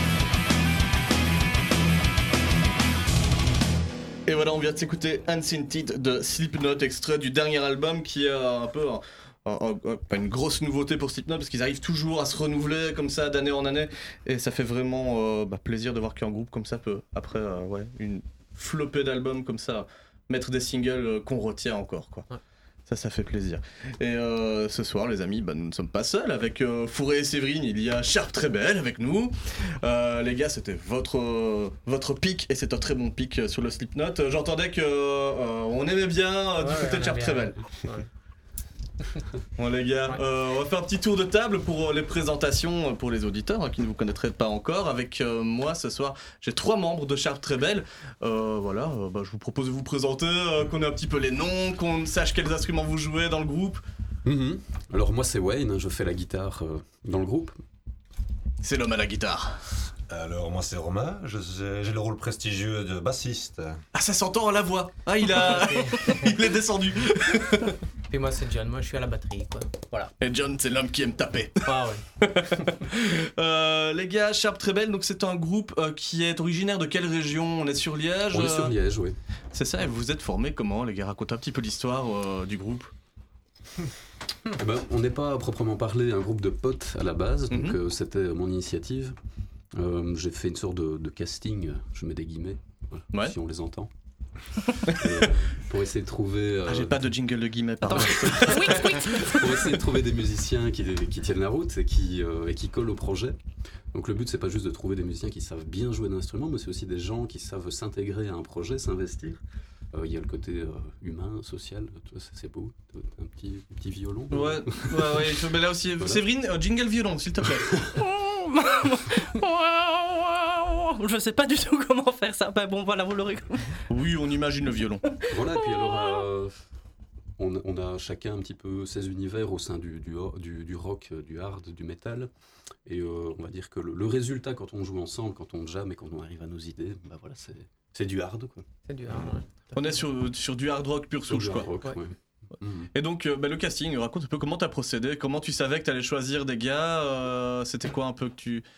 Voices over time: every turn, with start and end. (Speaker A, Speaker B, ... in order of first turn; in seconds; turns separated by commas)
Speaker A: 4.2-22.3, Speaker A: 22.9-37.6, Speaker B: 36.6-38.1, Speaker A: 39.6-53.8, Speaker C: 54.2-57.5, Speaker A: 58.6-59.6, Speaker D: 60.1-63.8, Speaker A: 63.9-67.7, Speaker B: 65.2-66.3, Speaker B: 68.1-70.1, Speaker A: 70.2-78.8, Speaker B: 71.6-72.0, Speaker C: 78.3-79.2, Speaker A: 79.5-82.9, Speaker C: 84.5-89.1, Speaker A: 87.5-87.8, Speaker C: 89.7-93.9, Speaker C: 94.8-97.1, Speaker A: 96.7-99.5, Speaker C: 97.9-103.4, Speaker E: 98.5-99.0, Speaker C: 103.9-109.4, Speaker C: 109.9-115.3, Speaker A: 114.3-117.7, Speaker C: 117.5-118.0, Speaker E: 118.0-123.8, Speaker A: 123.9-125.0, Speaker C: 125.3-126.5, Speaker E: 125.6-126.1, Speaker C: 127.4-132.3, Speaker C: 132.8-139.3, Speaker B: 138.8-140.0, Speaker A: 139.7-141.7, Speaker C: 141.2-142.9, Speaker A: 142.9-148.6